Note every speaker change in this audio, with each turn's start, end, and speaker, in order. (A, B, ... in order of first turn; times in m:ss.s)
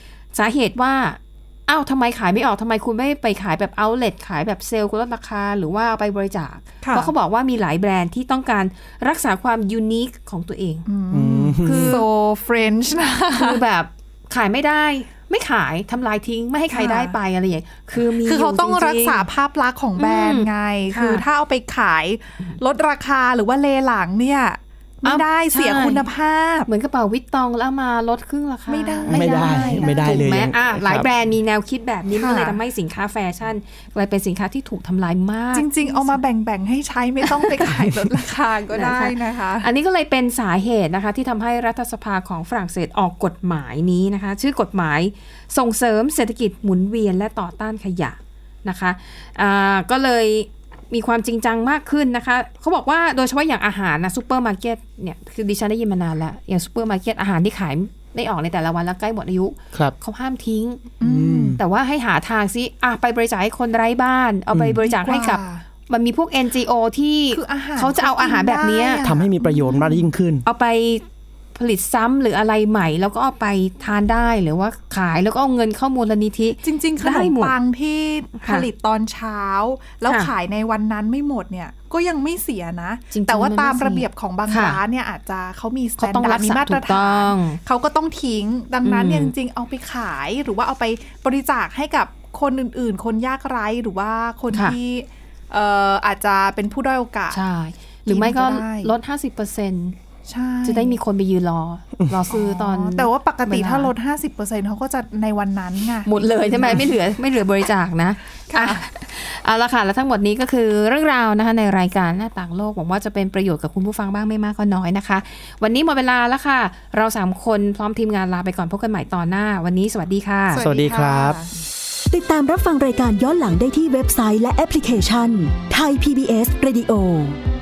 0:00.3-0:10.9 A
0:06.8-0:07.1 B
0:10.9-0:13.6 B
0:11.1-0:12.0 C
0:11.7-0:12.0 A
0:13.3-0:19.3 A
0:16.7-0:17.2 B
0:18.2-0:26.7 B
0:20.0-0:21.2 A
0:25.0-0:26.0 A
0:26.7-0:36.2 A
0:28.7-0:30.3 B
0:29.1-0:31.1 C
0:32.2-0:32.6 B
0:35.5-0:39.7 B
0:37.4-0:38.1 A
0:38.7-1:00.8 A
1:01.0-1:01.6 B
1:01.0-1:01.6 C
1:01.6-1:09.0 A
1:04.5-1:04.8 C
1:04.8-1:05.6 B
1:07.3-1:10.0 B
1:09.0-1:10.4 C
1:10.4-1:17.6 A
1:16.6-1:37.4 B
1:20.1-1:20.3 A
1:23.1-1:24.8 A
1:26.0-1:27.6 A
1:28.8-1:29.3 A
1:37.3-1:40.0 A
1:38.1-1:38.9 B
1:40.3-1:41.0 B
1:40.6-1:43.9 A
1:42.3-1:46.9 B
1:46.0-2:00.6 A
1:48.5-1:48.8 B
2:00.5-2:01.5 B
2:00.6-2:01.4 C
2:02.1-2:07.4 D